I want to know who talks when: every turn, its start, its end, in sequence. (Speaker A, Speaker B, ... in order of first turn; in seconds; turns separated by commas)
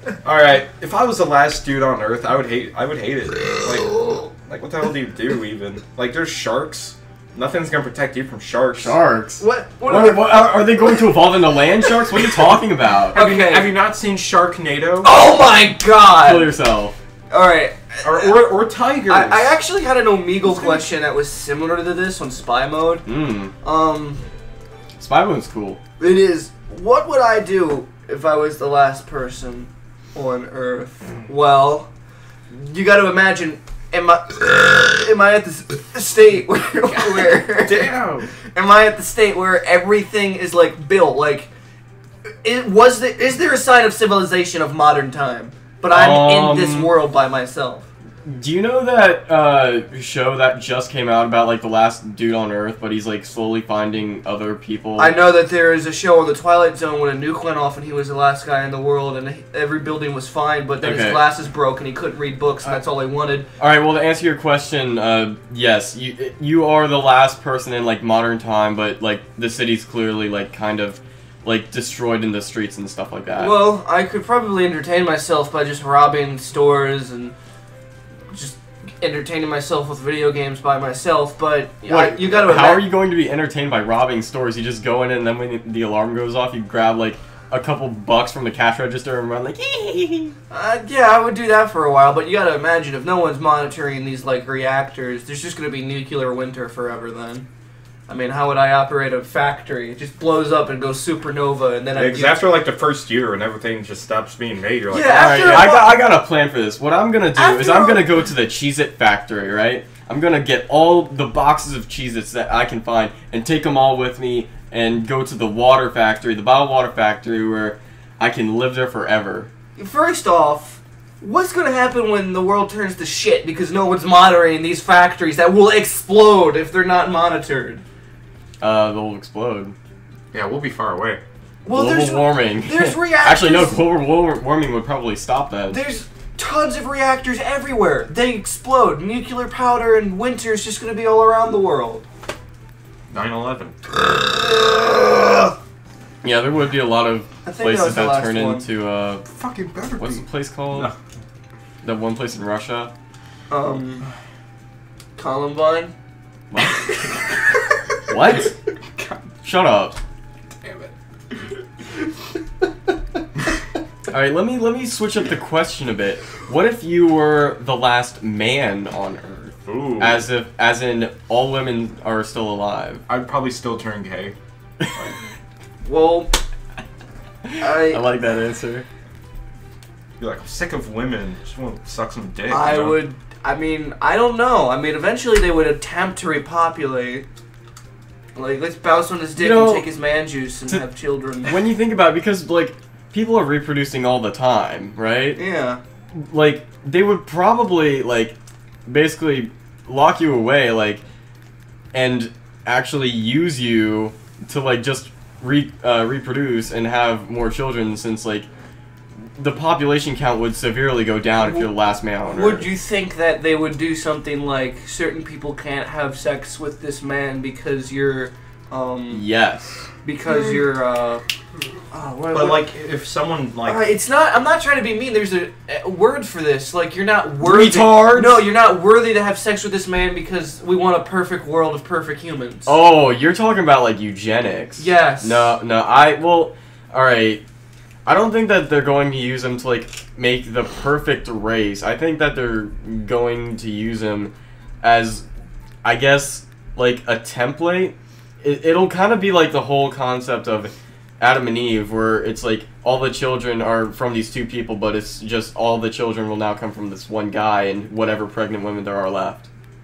Speaker A: 0.2-9.0, Speaker B: 8.8-13.2, Speaker C: 9.4-10.9, Speaker C: 13.1-13.7, Speaker A: 13.1-15.1, Speaker C: 15.0-16.5, Speaker B: 16.2-16.9, Speaker C: 17.3-18.4, Speaker A: 18.0-19.6, Speaker C: 19.1-23.0, Speaker B: 23.1-23.5, Speaker C: 23.6-24.2, Speaker B: 25.0-25.8, Speaker C: 26.0-31.9, Speaker C: 32.5-37.9, Speaker A: 36.9-38.3, Speaker C: 38.5-41.5, Speaker C: 42.4-47.9, Speaker B: 45.9-46.9, Speaker B: 48.2-55.2, Speaker C: 55.0-63.5, Speaker B: 60.8-61.2, Speaker B: 63.6-73.7, Speaker C: 73.4-77.3, Speaker C: 78.3-82.9, Speaker B: 81.9-90.4, Speaker C: 90.5-97.5, Speaker C: 98.1-102.5, Speaker A: 102.0-105.7, Speaker C: 104.9-106.0, Speaker B: 105.1-119.5, Speaker C: 107.3-108.1, Speaker C: 119.8-127.8, Speaker B: 128.6-129.8, Speaker A: 130.3-131.2, Speaker C: 131.6-133.8, Speaker B: 131.7-135.8, Speaker C: 135.7-142.1, Speaker A: 143.1-143.9, Speaker C: 144.1-145.5, Speaker B: 146.2-149.2, Speaker C: 147.4-148.7, Speaker A: 149.3-150.9, Speaker B: 150.0-150.9, Speaker B: 151.8-152.9, Speaker C: 153.5-154.1, Speaker C: 155.2-155.9, Speaker B: 156.5-156.9, Speaker B: 158.1-158.5, Speaker B: 159.4-160.0, Speaker A: 160.6-160.9, Speaker B: 164.1-173.0, Speaker A: 169.7-170.3, Speaker A: 173.1-174.3, Speaker C: 175.8-176.4, Speaker B: 177.6-178.8, Speaker C: 177.6-178.0, Speaker A: 180.2-183.0, Speaker C: 182.5-187.3, Speaker C: 188.3-191.5, Speaker B: 189.4-189.9, Speaker B: 191.4-195.4, Speaker C: 195.4-195.8, Speaker B: 196.1-198.3, Speaker B: 198.9-201.0, Speaker B: 201.9-208.5, Speaker B: 209.4-212.7, Speaker C: 211.4-211.7, Speaker C: 212.2-219.2, Speaker B: 219.1-219.9, Speaker C: 220.0-221.2, Speaker C: 221.9-222.7, Speaker A: 222.3-223.8, Speaker C: 223.7-232.7, Speaker B: 227.4-228.4, Speaker B: 232.7-237.4, Speaker C: 234.8-235.6, Speaker B: 238.1-245.2, Speaker B: 245.8-259.5